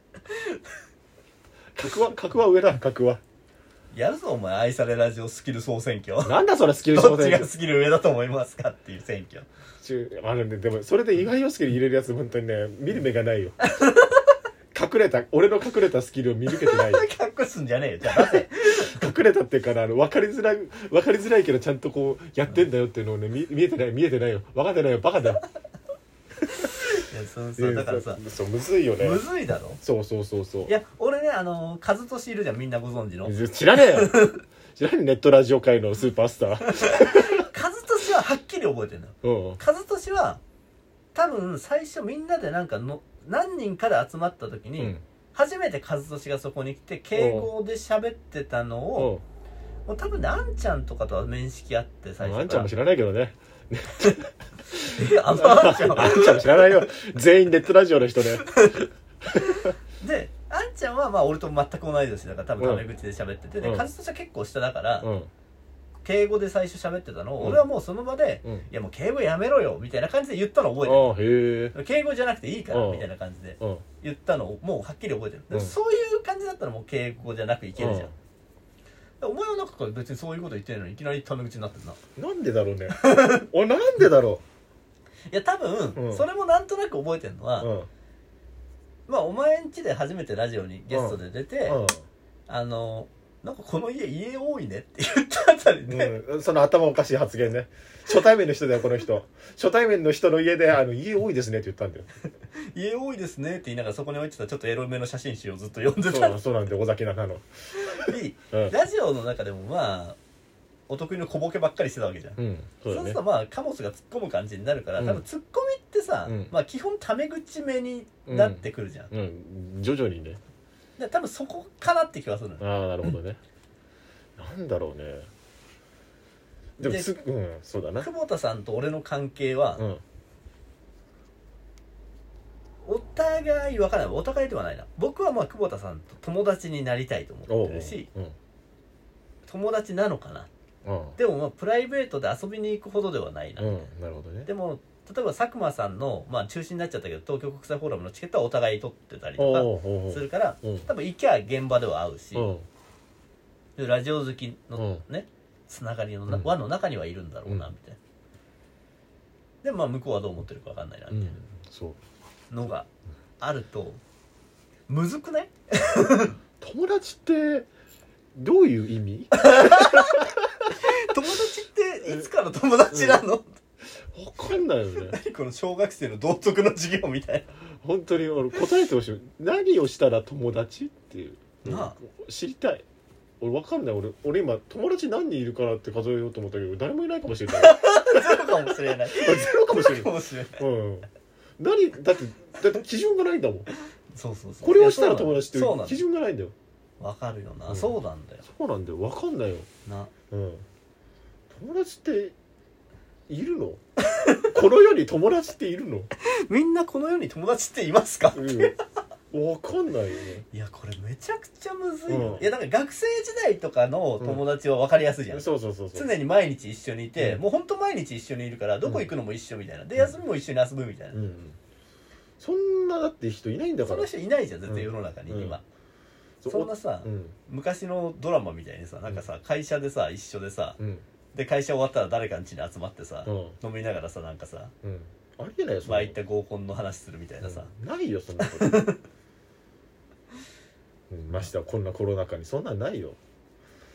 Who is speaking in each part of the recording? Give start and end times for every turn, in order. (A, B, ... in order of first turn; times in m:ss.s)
0:01.7-0:03.2 A
0:03.9-0:06.3 B
0:06.2-0:07.5 A
0:06.9-0:09.4 B
0:09.8-0:13.6 A
0:13.6-0:14.3 B
0:14.7-0:17.0 A
0:16.5-0:19.1 B
0:18.1-0:25.4 A
0:26.5-0:28.2 B
0:27.6-0:29.2 A
0:29.0-0:29.8 B
0:29.8-0:30.7 A
0:30.7-0:34.4 B
0:33.2-0:34.2 A
0:34.8-0:37.5 A
0:36.7-0:40.4 B
0:39.2-0:39.6 A
0:41.1-0:49.1 B
0:47.1-0:47.5 A
0:48.9-0:49.2 A
0:49.9-0:52.7 B
0:52.2-0:58.5 A
0:54.9-0:56.4 B
0:58.4-1:05.1 B
0:59.4-0:59.7 A
1:02.6-1:02.8 A
1:03.6-1:03.9 A
1:05.0-1:05.3 A
1:06.0-1:11.1 B
1:07.4-1:07.6 A
1:10.8-1:11.7 A
1:11.7-1:18.1 B
1:12.7-1:13.1 A
1:17.8-1:18.1 A
1:19.2-1:22.0 B
1:22.2-1:24.4 A
1:22.9-1:23.4 B
1:25.3-1:27.7 B
1:26.0-1:26.2 A
1:27.6-1:27.9 A
1:29.1-1:31.8 B
1:30.9-1:32.0 A
1:32.5-1:36.1 B
1:35.9-1:42.1 A
1:42.6-1:46.4 B
1:46.0-1:48.7 A
1:47.9-1:50.2 B
1:50.9-1:52.4 B
1:52.4-1:53.2 A
1:52.9-1:59.1 B
1:55.0-1:55.2 A
1:56.2-1:56.5 A
1:58.3-2:00.4 A
2:01.0-2:02.6 B
2:02.6-2:03.4 A
2:04.4-2:05.3 A
2:06.8-2:08.1 A
2:06.8-2:07.1 B
2:08.0-2:09.8 B
2:12.8-2:18.1 B
2:17.5-2:18.3 A
2:19.4-2:20.5 B
2:20.8-2:21.2 A
2:21.2-2:23.9 B
2:23.6-2:24.5 A
2:24.4-2:32.5 B
2:29.4-2:30.9 A
2:32.3-2:32.6 A
2:33.8-2:38.0 B
2:34.7-2:35.0 A
2:36.3-2:36.5 A
2:39.6-2:41.4 B
2:41.1-2:42.0 A
2:42.5-2:42.9 B
2:43.4-2:44.0 B
2:44.9-2:46.4 B
2:46.6-2:47.7 A
2:48.3-2:50.7 A
2:49.3-2:53.4 B
2:52.9-2:53.2 A
2:54.1-2:55.2 A
2:55.0-2:57.5 B
2:57.8-3:02.8 A
3:01.6-3:02.0 B
3:03.4-3:08.3 A
3:07.5-3:10.6 B
3:09.0-3:13.7 A
3:14.1-3:16.0 B
3:14.6-3:16.5 A
3:17.0-3:18.4 B
3:17.7-3:19.7 A
3:19.8-3:20.1 B
3:20.3-3:20.6 A
3:21.5-3:22.3 A
3:23.3-3:23.8 A
3:24.1-3:24.5 B
3:24.4-3:26.1 A
3:26.2-3:28.8 B
3:28.3-3:28.7 A
3:29.3-3:30.4 A
3:30.5-3:41.2 B
3:32.1-3:32.5 A
3:35.3-3:36.1 A
3:41.1-3:41.6 A
3:42.4-3:44.1 A
3:43.8-3:45.6 B
3:44.7-3:45.6 A
3:46.4-3:47.3 A
3:46.4-3:50.8 B
3:50.8-3:51.0 A
3:51.3-3:54.7 B
3:53.2-3:53.6 A
3:54.8-3:56.2 A
3:55.8-3:57.7 B
3:57.4-3:58.8 A
3:58.4-3:59.0 B
4:01.1-4:03.2 A